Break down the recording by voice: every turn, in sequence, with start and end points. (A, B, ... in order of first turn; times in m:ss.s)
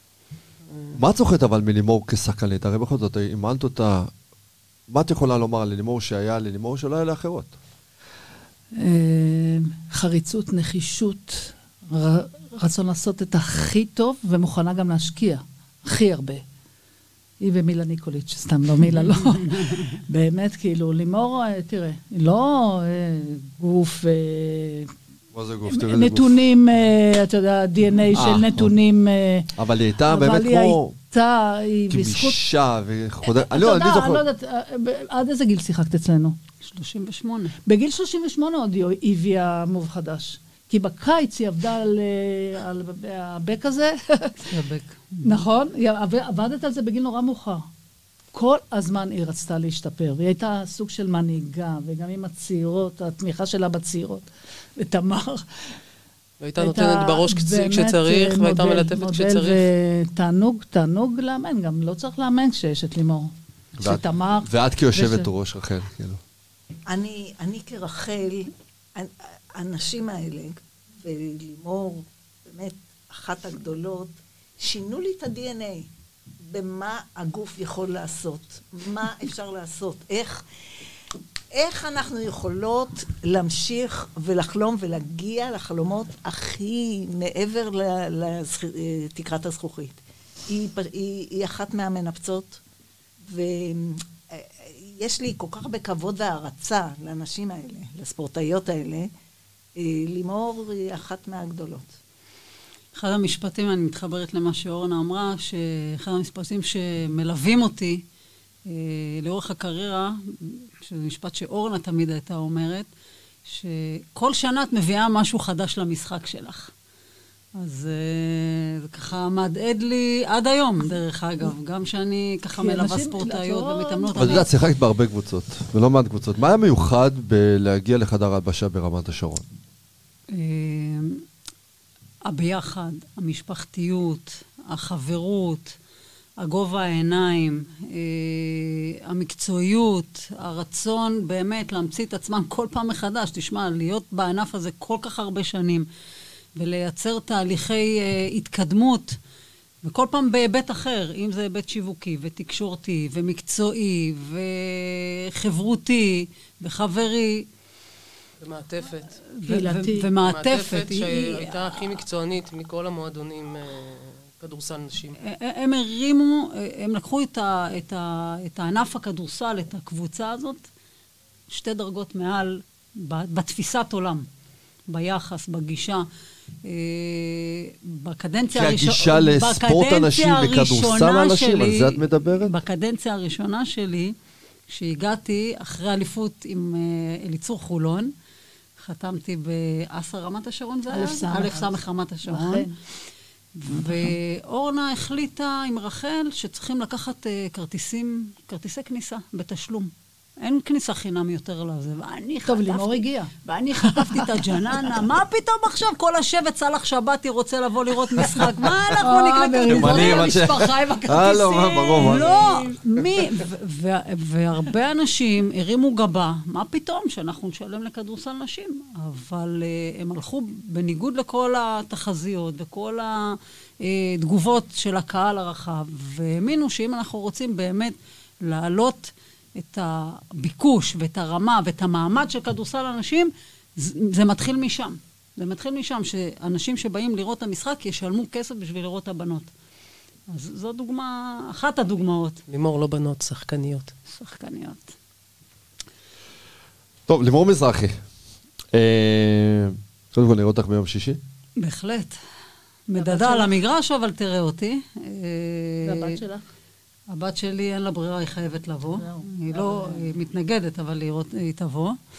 0:00.7-0:01.0 A
0:01.0-0:04.1 B
0:04.9-0:07.5 B
0:08.8-0:16.4 C
0:17.4-0:24.9 C
0:25.3-0:26.4 B
0:25.7-0:29.5 C
0:28.1-0:28.7 B
0:29.6-0:31.0 B
0:30.1-0:32.4 C
0:31.9-0:34.2 B
0:33.3-0:36.4 C
0:36.6-0:37.6 D
0:37.7-0:44.5 C
0:44.5-0:45.5 D
0:45.2-0:47.6 C
0:48.3-0:55.4 C
0:56.4-0:59.6 A
0:56.6-1:05.3 C
1:03.8-1:06.2 B
1:06.9-1:15.9 E
1:16.5-1:20.4 E
1:21.5-1:30.0 E
1:30.5-1:32.6 E
1:33.3-1:39.1 E
1:39.8-1:42.0 E
1:43.0-1:48.0 D
1:48.7-1:52.9 D
1:53.5-1:56.7 D
1:57.6-2:04.5 D
2:02.6-2:04.5 C
2:04.2-2:09.4 B
2:10.3-2:11.2 D
2:12.2-2:15.8 D
2:16.4-2:25.9 D
2:26.6-2:29.2 D
2:29.8-2:37.5 D
2:38.4-2:39.1 A
2:39.4-2:40.1 C
2:39.5-2:41.7 D
2:40.2-2:45.2 A
2:45.2-2:50.6 D
2:51.5-2:54.3 D
2:54.9-2:56.0 D
2:56.6-3:04.1 D
2:58.5-3:02.6 B
3:04.7-3:08.1 D
3:08.8-3:12.8 D
3:10.9-3:12.7 C
3:13.6-3:59.5 D
3:22.4-3:24.3 C
3:28.2-3:28.9 B
3:29.0-3:32.7 C
3:29.7-3:32.7 B
4:00.3-4:02.4 D
4:02.5-4:03.9 A
4:04.1-4:04.9 D
4:07.1-4:08.0 B
4:08.7-4:11.2 B
4:11.6-4:12.2 D
4:12.9-4:16.2 D
4:13.0-4:13.5 C
4:15.8-4:16.4 C
4:17.1-4:22.0 D
4:19.0-4:20.0 C